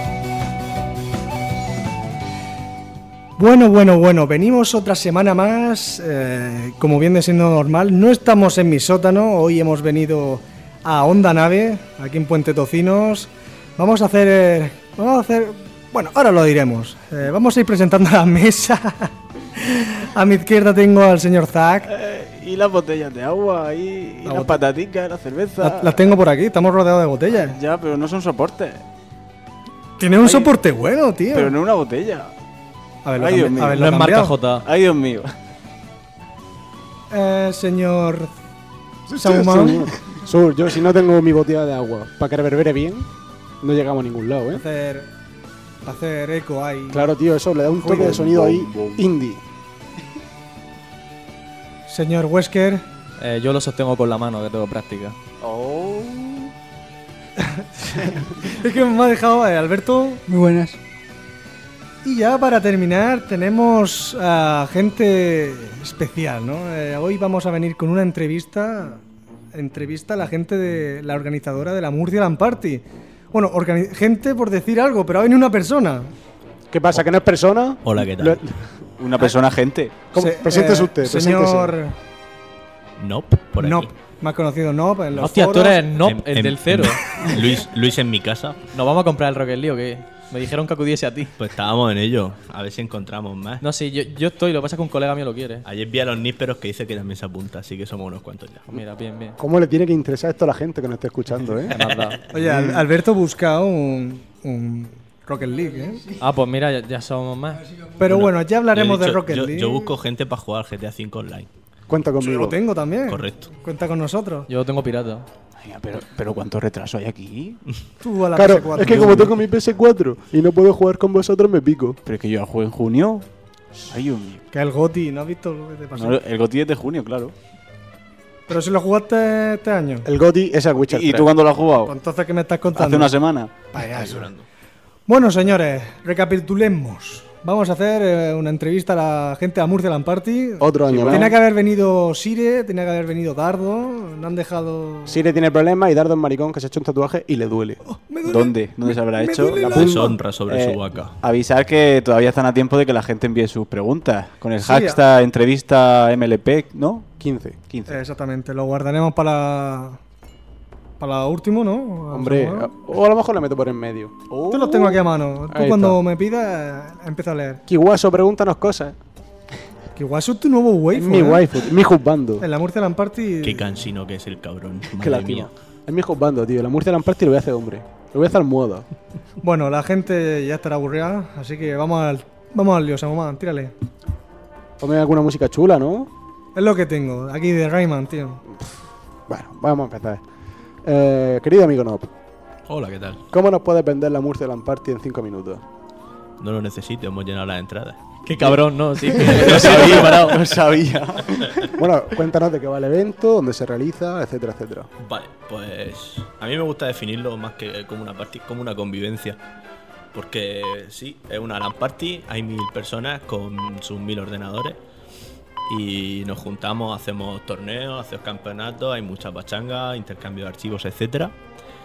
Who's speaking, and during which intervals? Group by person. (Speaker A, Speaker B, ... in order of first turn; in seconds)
Speaker A: 3.4-21.9, 24.2-24.6, 25.6-27.6, 30.0-31.6, 33.0-34.4, 37.1-38.3, 39.1-39.9, 44.5-45.1, 45.8-47.1, 47.8-48.2, 51.9-52.8, 57.4-60.2, 62.0-69.0, 69.5-76.1, 80.2-82.0, 83.6-85.9, 102.3-106.1, 108.0-109.9, 112.2-114.5, 118.0-119.4, 124.5-126.2, 128.5-130.1, 131.8-133.2, 133.7-134.2, 135.1-145.2, 147.8-150.1, 154.6-155.0, 157.9-160.0, 161.0-162.7, 164.5-167.6, 170.0-171.5, 172.4-173.8, 179.4-183.7, 186.6-188.4
Speaker B: 21.9-26.1, 27.3-28.8, 30.2-30.5, 31.3-32.3, 33.2-33.8, 34.6-35.3, 47.9-49.1, 55.4-56.5, 60.3-60.8, 79.0-80.0, 115.6-117.6, 122.0-123.3, 123.8-124.4, 126.0-127.3, 130.8-131.9, 132.7-133.5, 140.9-141.3, 148.3-149.8, 150.5-157.1, 157.7-158.0, 164.3-164.9, 199.3-201.8
Speaker C: 33.7-34.7, 53.2-55.2, 85.2-87.2, 88.7-91.4, 93.6-95.7, 98.7-99.4, 101.7-102.2, 106.2-107.7, 114.5-115.3, 198.3-200.5
Speaker D: 39.1-43.1, 43.6-44.6, 46.9-49.4, 76.7-79.2, 80.1-81.8, 99.4-102.9, 111.9-112.6, 118.3-122.0, 130.0-131.3, 140.6-141.3, 145.1-147.8, 149.6-150.2, 157.2-157.6, 162.1-164.3, 165.5-166.0, 167.7-169.0, 170.9-172.5, 175.0-178.9, 184.8-186.1, 189.3-190.2, 190.8-192.1, 193.3-195.6, 199.7-200.3, 201.2-204.9
Speaker E: 77.8-78.4, 83.0-83.9, 86.0-88.6, 91.4-93.7, 95.6-98.8, 108.1-111.5, 113.1-113.5, 133.9-134.5, 149.7-151.2, 173.4-175.5, 192.7-193.2, 196.4-198.6, 199.2-200.1, 205.0-209.4, 210.1-214.8, 215.7-221.3